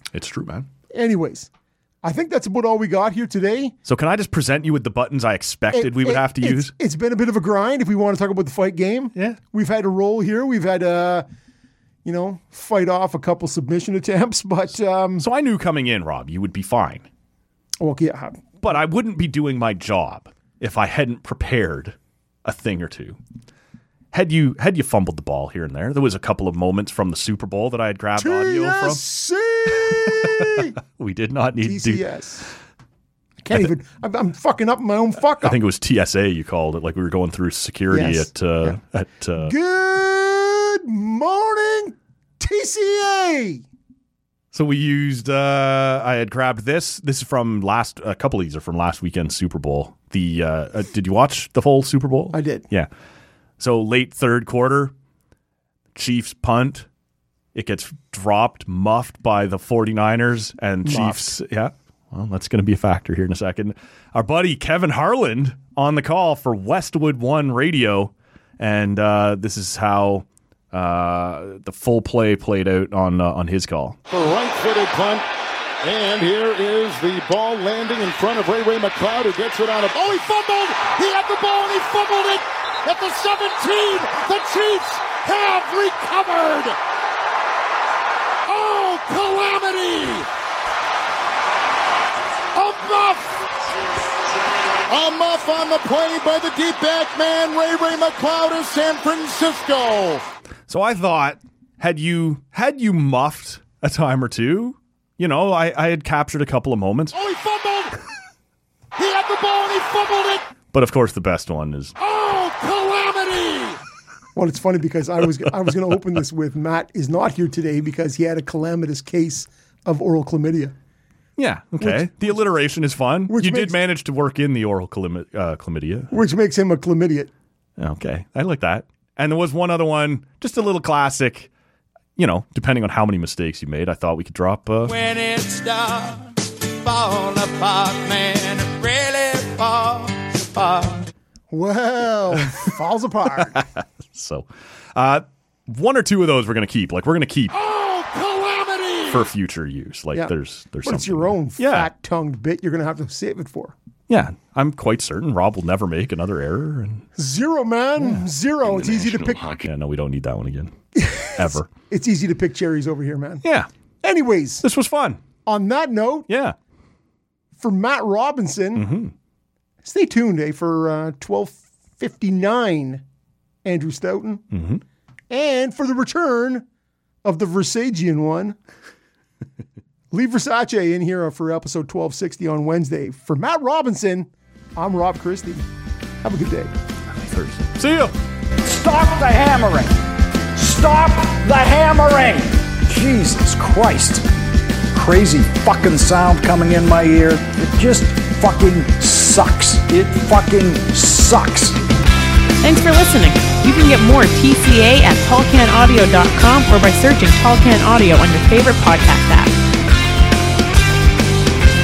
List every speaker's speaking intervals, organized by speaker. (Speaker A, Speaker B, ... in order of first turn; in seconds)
Speaker A: 0.1-0.7, 3.9-6.7, 15.2-17.1, 18.6-23.2, 24.1-29.0, 29.7-32.0, 35.4-39.5, 44.5-52.9, 53.6-54.9, 55.9-56.9, 57.5-74.0, 100.7-107.1, 110.7-111.9, 121.4-126.1, 127.8-131.5, 132.2-134.9, 143.5-147.5, 149.1-151.9, 154.1-157.0, 158.0-160.7, 161.3-161.7, 163.4-163.7, 164.6-165.2, 166.3-166.6, 168.7-169.1, 174.5-174.8, 187.1-188.1
Speaker B: 0.9-1.5, 2.0-3.7, 5.7-11.2, 12.0-15.2, 17.8-18.6, 28.2-30.7, 31.6-32.5, 33.4-35.5, 37.9-38.8, 39.4-43.6, 52.3-52.6, 60.8-61.3, 114.3-120.7, 121.8-122.4, 123.3-123.8, 126.1-127.3, 141.5-143.6, 150.8-153.7, 157.2-159.4, 160.9-163.4, 164.0-164.6, 165.4-166.3, 167.6-168.9, 169.8-173.0, 173.6-174.4, 175.3-176.6, 177.2-178.6, 180.1-185.7, 186.2-186.7
Speaker C: 74.1-75.2, 75.8-86.8, 88.5-90.3, 92.5-93.4, 94.9-100.3, 107.1-107.9, 109.0-110.4, 112.0-113.8, 147.5-149.3
Speaker D: 134.8-141.1
Speaker E: 188.6-189.9, 190.5-194.3, 194.9-201.8
Speaker F: 202.6-209.5